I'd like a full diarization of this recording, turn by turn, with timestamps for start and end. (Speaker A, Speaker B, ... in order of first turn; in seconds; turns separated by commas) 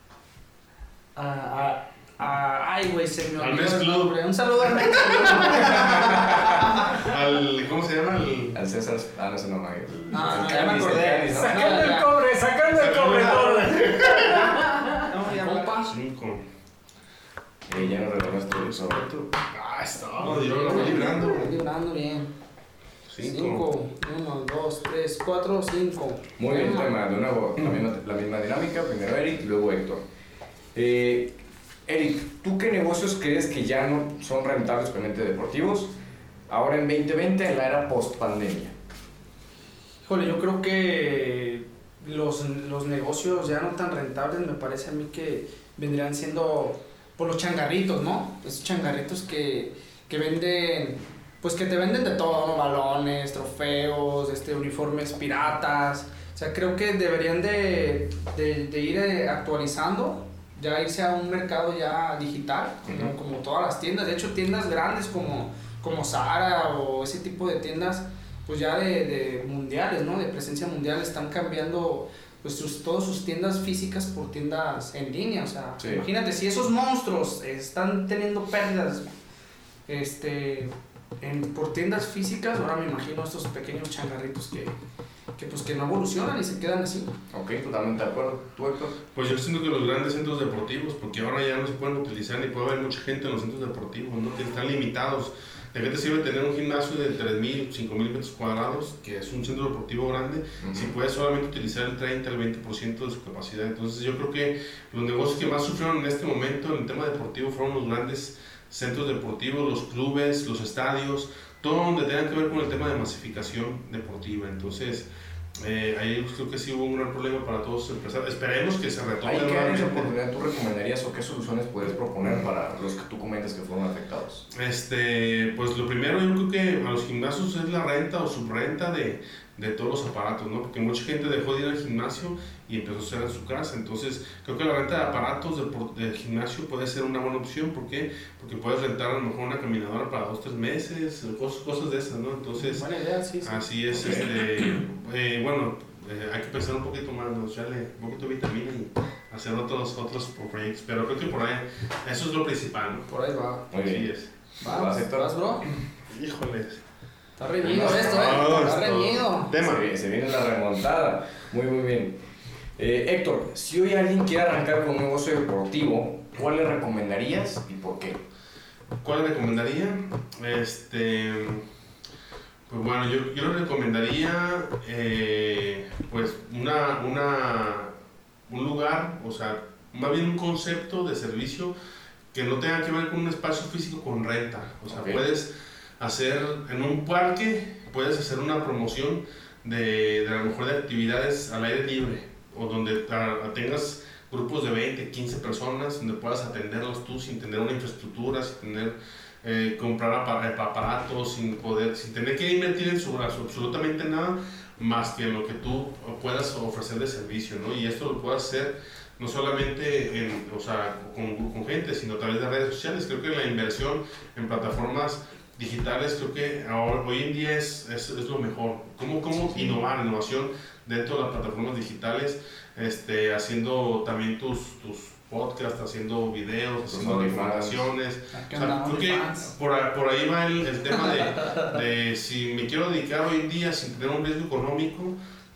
Speaker A: 1.1-6.9, Speaker B: 3.4-8.6, Speaker C: 8.5-11.9, Speaker A: 10.1-12.3, Speaker D: 11.3-14.4, Speaker B: 12.7-14.9, Speaker A: 14.4-15.9, Speaker B: 15.6-16.4, Speaker C: 17.7-19.1, Speaker B: 18.5-21.5, Speaker A: 20.2-22.3, Speaker B: 23.1-23.7, Speaker A: 23.2-26.9, Speaker C: 26.4-30.0, Speaker C: 30.7-35.9, Speaker C: 36.5-38.7, Speaker A: 40.0-79.1, Speaker C: 62.9-63.1, Speaker C: 75.8-76.0, Speaker A: 79.9-84.7, Speaker A: 85.3-87.1, Speaker C: 87.3-89.0, Speaker B: 89.1-120.1, Speaker C: 100.6-100.9, Speaker C: 119.2-124.5, Speaker B: 124.5-142.9, Speaker A: 142.6-143.6, Speaker B: 143.4-153.1, Speaker C: 143.9-144.3, Speaker A: 153.1-153.7, Speaker C: 153.7-154.1, Speaker B: 153.8-154.3, Speaker A: 154.6-155.7, Speaker C: 154.6-155.3, Speaker B: 156.1-156.8, Speaker A: 157.4-159.6, Speaker C: 157.6-158.5, Speaker B: 157.6-159.9, Speaker C: 159.6-162.2, Speaker C: 162.8-168.2, Speaker B: 169.0-171.6, Speaker B: 172.7-177.9, Speaker B: 178.5-181.7, Speaker B: 182.3-235.2, Speaker C: 184.9-185.2, Speaker C: 226.9-227.9, Speaker A: 228.3-229.5